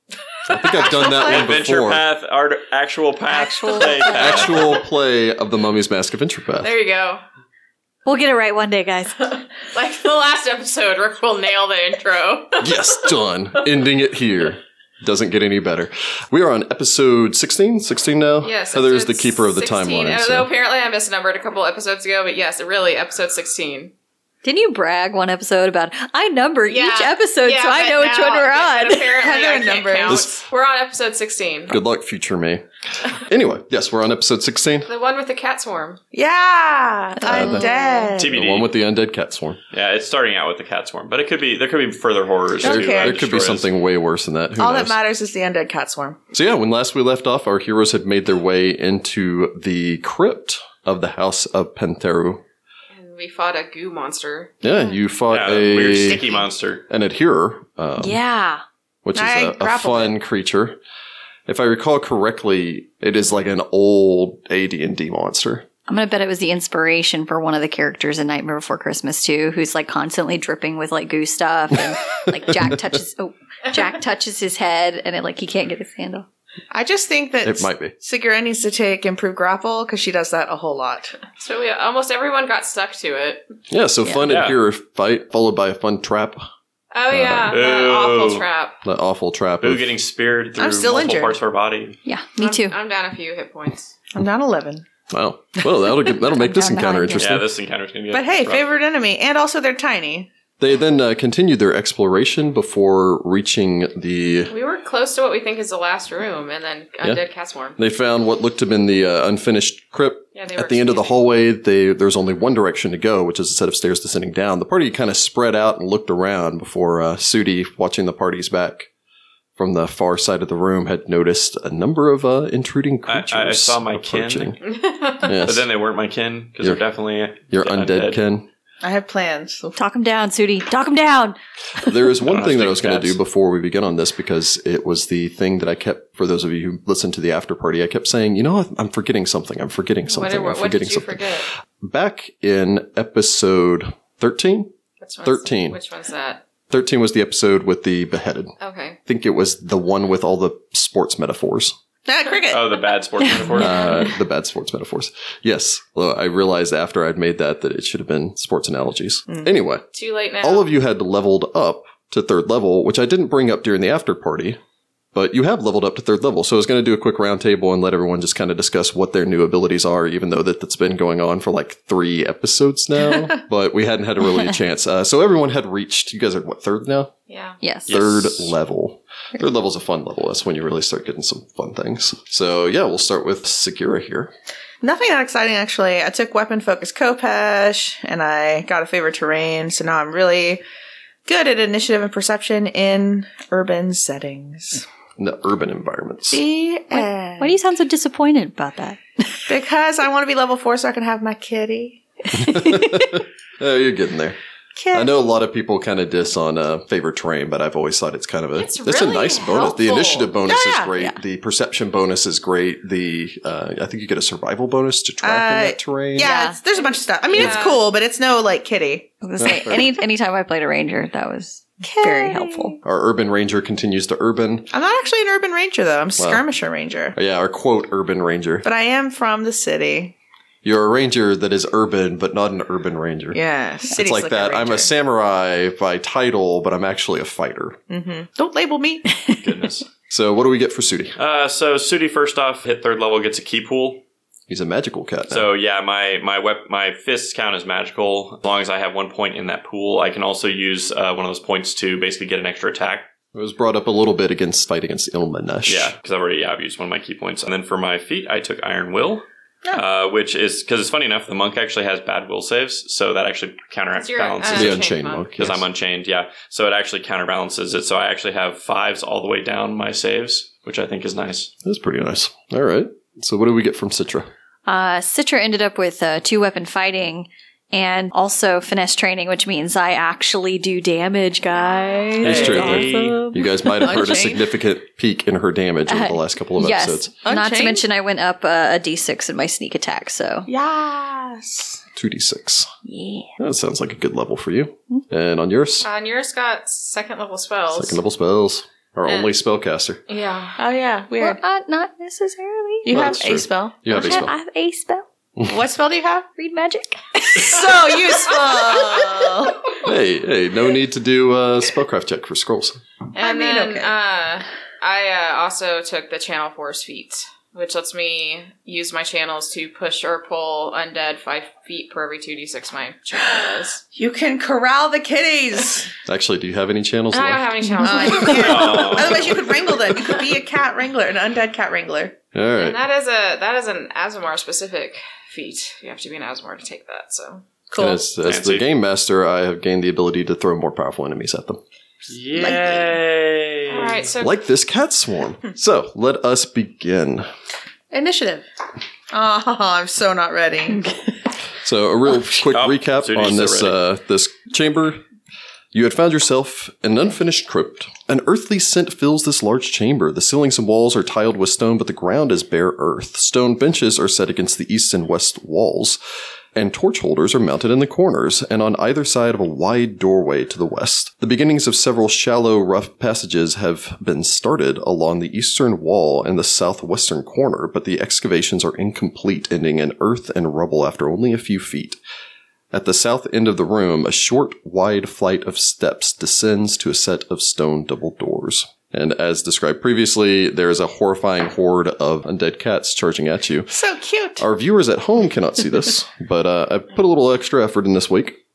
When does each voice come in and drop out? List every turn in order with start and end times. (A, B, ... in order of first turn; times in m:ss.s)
0:00.4-0:02.0 A
0:00.9-0:04.7 B
0:01.0-0:01.5 C
0:03.3-0:04.6 D
0:04.1-0:06.7 A
0:06.6-0:07.2 E
0:08.1-0:09.3 D
0:09.7-0:12.8 E
0:12.6-0:20.5 A
0:18.4-0:23.9 E
0:24.4-0:29.2 D
0:26.7-0:31.8 E
0:29.2-0:30.4 C
0:30.1-0:30.3 A
0:31.7-0:34.9 A
0:34.8-0:36.0 E
0:36.1-0:38.4 C
0:37.2-0:38.1 D
0:37.3-0:37.6 A
0:38.2-0:38.7 B
0:38.2-0:39.6 A
0:39.7-0:43.7 B
0:42.6-0:43.2 C
0:42.6-0:45.0 A
0:44.6-0:46.2 C
0:46.3-0:52.4 A
0:52.9-0:54.5 E
0:54.6-0:56.3 A
0:55.3-0:56.8 B
0:56.9-0:58.2 A
0:58.0-0:58.6 D
0:59.0-1:00.8 A
0:59.2-1:00.1 C
1:01.5-1:05.7 A
1:05.9-1:16.3 D
1:16.7-1:21.3 C
1:17.4-1:17.9 A
1:21.3-1:23.5 E
1:23.7-1:26.4 A
1:24.3-1:24.6 B
1:26.9-1:28.8 E
1:27.1-1:27.6 A
1:27.5-1:28.5 B
1:28.8-1:30.0 A
1:29.6-1:32.0 B
1:30.6-1:31.4 C
1:32.0-1:32.8 D
1:32.4-1:33.9 E
1:34.2-1:34.8 C
1:35.1-1:37.5 A
1:36.3-1:37.3 D
1:37.2-1:38.7 B
1:38.1-1:40.3 C
1:40.6-1:44.5 A
1:44.5-1:47.8 E
1:47.8-1:58.9 A
1:50.3-1:51.2 E
1:59.6-2:04.6 A
2:03.1-2:04.6 B
2:04.6-2:05.3 E
2:05.2-2:05.7 A
2:05.3-2:08.2 B
2:07.5-2:08.5 A
2:08.8-2:09.8 C
2:09.8-2:11.4 D
2:11.8-2:21.3 A
2:12.2-2:13.2 B
2:20.1-2:21.5 E
2:21.8-2:24.7 A
2:25.0-2:26.4 E
2:25.2-2:25.8 A
2:26.7-2:28.5 A
2:28.6-2:29.0 E
2:29.1-2:31.8 A
2:32.1-2:32.8 C
2:32.5-2:33.9 B
2:33.3-2:34.1 D
2:33.5-2:39.8 A
2:39.9-2:40.7 E
2:40.4-2:44.6 A
2:45.1-2:57.1 A
2:57.3-2:57.6 E
2:57.6-2:57.9 D
2:57.9-2:58.5 B
2:57.9-3:04.3 A
3:04.8-3:10.6 C
3:11.3-3:14.9 C
3:15.2-3:16.4 A
3:16.3-3:17.5 C
3:16.9-3:19.4 D
3:19.5-3:22.0 C
3:22.3-3:24.4 A
3:22.4-3:23.0 D
3:24.8-3:25.2 C
3:24.9-3:36.3 A
3:28.6-3:30.4 E
3:30.5-3:30.9 C
3:35.2-3:39.2 C
3:36.2-3:36.6 D
3:37.3-3:37.8 E
3:39.2-3:42.8 D
3:39.4-3:39.9 A
3:41.8-3:42.8 C
3:42.8-3:44.7 A
3:44.7-3:47.2 C
3:46.2-3:46.4 A
3:47.2-3:48.7 A
3:48.6-3:50.2 C
3:50.6-3:53.4 A
3:53.3-3:54.9 C
3:53.9-3:57.8 A
3:57.9-3:59.1 C
3:59.4-3:59.9 B
4:00.1-4:01.2 A
4:01.2-4:04.0 B
4:04.5-4:05.5 A
4:05.3-4:13.1 B
4:13.3-4:15.9 A
4:15.7-4:31.5 B
4:23.9-4:25.3 E
4:24.5-4:25.6 A
4:31.6-4:34.3 A
4:34.7-4:44.3 D
4:42.2-4:43.2 B
4:42.2-4:47.1 A
4:43.8-4:44.5 C
4:45.9-4:50.5 D
4:47.2-4:47.8 C
4:50.5-4:51.8 C
4:52.0-4:52.7 A
4:52.8-4:53.4 D
4:53.4-4:55.9 A
4:55.8-4:58.0 E
4:57.7-5:00.0 A
4:59.1-4:59.3 E
5:00.1-5:00.6 E
5:00.6-5:01.4 C
5:01.2-5:03.1 D
5:02.8-5:04.2 C
5:02.9-5:04.3 A
5:03.9-5:05.0 D
5:05.4-5:06.3 C
5:06.4-5:08.0 D
5:07.4-5:09.7 C
5:09.8-5:12.8 A
5:13.1-5:23.8 E
5:13.2-5:13.9 C
5:23.9-5:25.9 C
5:26.1-5:27.8 A
5:27.1-5:29.2 E
5:27.7-5:28.1 D
5:27.8-5:32.2 C
5:28.2-5:29.4 B
5:32.3-5:32.8 A
5:32.6-5:37.4 E
5:37.7-5:38.0 C
5:37.8-5:41.6 A
5:38.2-5:38.6 B
5:42.1-5:44.1 B
5:42.4-5:42.9 C
5:43.7-5:44.4 E
5:44.2-5:47.3 A
5:47.9-5:48.5 C
5:49.1-5:50.9 C
5:51.6-5:55.0 A
5:52.5-5:53.8 B
5:55.7-6:06.0 A
6:06.6-6:22.0 A
6:22.7-6:33.8 A
6:33.7-6:34.4 C
6:34.4-6:38.4 A